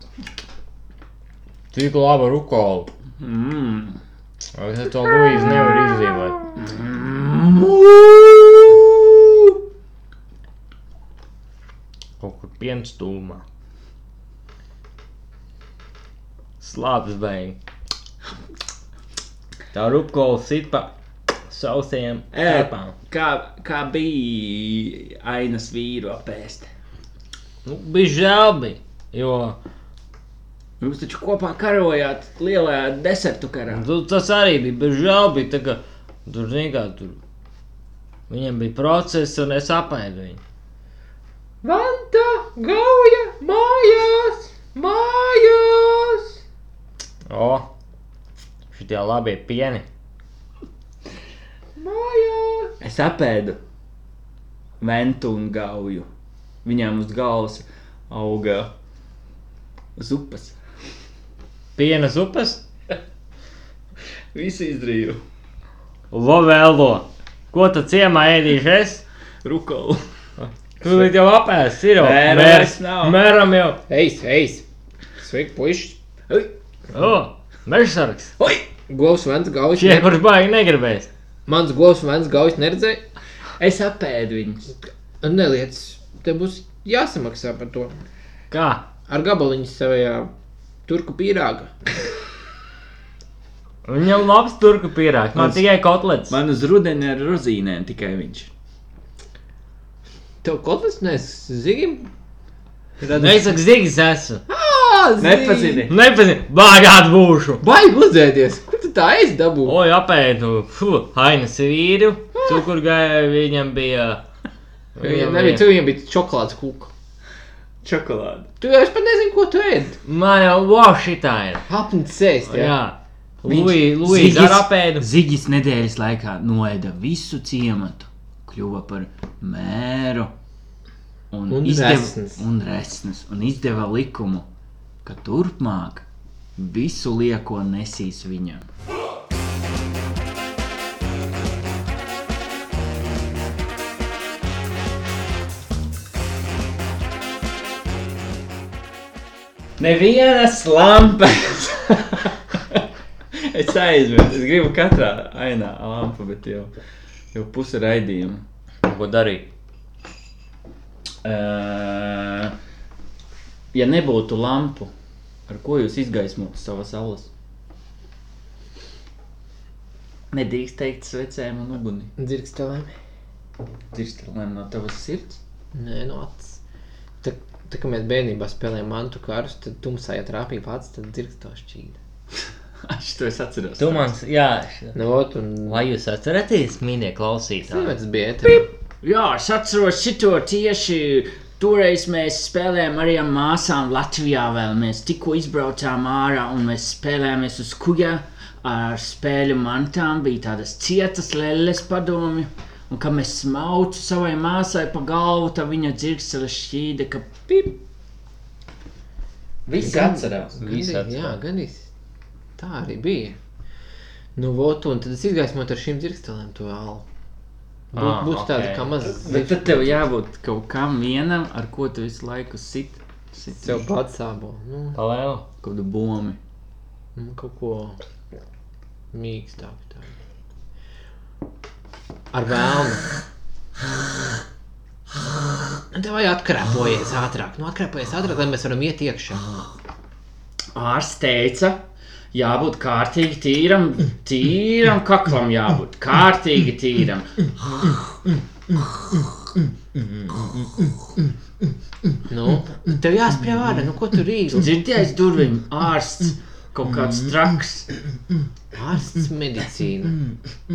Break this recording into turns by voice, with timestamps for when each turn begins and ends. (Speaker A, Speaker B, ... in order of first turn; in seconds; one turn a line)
Speaker A: 1.7-2.9
Speaker B: 3.2-4.0
Speaker A: 4.5-6.5
Speaker B: 6.6-9.6
Speaker A: 12.2-13.4
Speaker A: 16.6-17.6
Speaker A: 19.7-20.9
Speaker A: 21.5-22.9
Speaker B: 22.3-26.7
Speaker A: 27.6-29.6
Speaker B: 30.8-33.9
Speaker A: 33.7-37.2
Speaker A: 38.3-40.4
Speaker C: 41.6-46.4
Speaker A: 47.3-47.7
Speaker A: 48.7-49.9
Speaker C: 51.8-52.7
Speaker B: 52.8-53.6
Speaker B: 54.8-56.1
Speaker B: 56.6-58.7
Speaker B: 60.0-60.6
Speaker A: 61.8-62.6
Speaker B: 64.3-65.2
Speaker A: 66.1-69.0
Speaker B: 69.4-70.0
Speaker A: 70.4-73.8
Speaker B: 72.0-73.2
Speaker C: 73.9-74.7
Speaker C: 75.2-76.5
Speaker A: 76.9-78.3
Speaker C: 78.4-80.2
Speaker A: 79.8-81.1
Speaker C: 81.5-83.0
Speaker B: 83.6-84.7
Speaker C: 85.2-88.0
Speaker A: 88.5-88.8
Speaker C: 89.1-90.3
Speaker C: 90.9-91.8
Speaker A: 93.8-96.4
Speaker B: 95.3-95.6
Speaker B: 96.3-98.5
Speaker C: 100.4-102.1
Speaker C: 103.0-103.6
Speaker A: 103.2-104.4
Speaker C: 104.5-105.9
Speaker B: 105.2-105.9
Speaker A: 105.9-107.6
Speaker C: 107.6-109.8
Speaker A: 109.7-114.2
Speaker C: 112.4-112.7
Speaker A: 115.0-115.7
Speaker C: 115.0-116.9
Speaker B: 117.8-118.5
Speaker C: 118.6-120.0
Speaker A: 120.0-121.7
Speaker C: 121.7-122.8
Speaker A: 122.5-125.1
Speaker B: 123.5-130.3
Speaker B: 131.3-134.5
Speaker C: 131.5-132.4
Speaker B: 135.0-138.7
Speaker B: 149.8-156.7
Speaker B: 157.3-158.4
Speaker A: 158.8-159.5
Speaker B: 161.2-162.6
Speaker B: 163.7-164.9
Speaker B: 165.5-167.3
Speaker B: 170.3-172.1
Speaker C: 172.2-172.9
Speaker B: 173.9-175.4
Speaker C: 175.7-176.6
Speaker C: 177.2-182.0
Speaker B: 182.9-184.1
Speaker A: 183.8-184.9
Speaker C: 184.9-185.8
Speaker A: 185.7-187.9
Speaker C: 187.7-188.7
Speaker B: 189.0-207.8
Speaker B: 209.7-210.6
Speaker C: 209.8-211.9
Speaker A: 210.6-211.4
Speaker C: 212.6-213.4
Speaker C: 214.4-217.1
Speaker C: 217.9-219.9
Speaker A: 218.0-218.9
Speaker B: 219.1-223.8
Speaker C: 223.5-225.0
Speaker A: 224.9-225.4
Speaker B: 225.6-226.4
Speaker C: 227.2-228.0
Speaker C: 229.1-230.1
Speaker C: 232.3-233.1
Speaker C: 235.9-239.6
Speaker B: 240.8-241.8
Speaker B: 242.3-247.3
Speaker A: 250.2-250.5
Speaker C: 252.3-254.7
Speaker B: 254.5-257.9
Speaker C: 258.7-260.2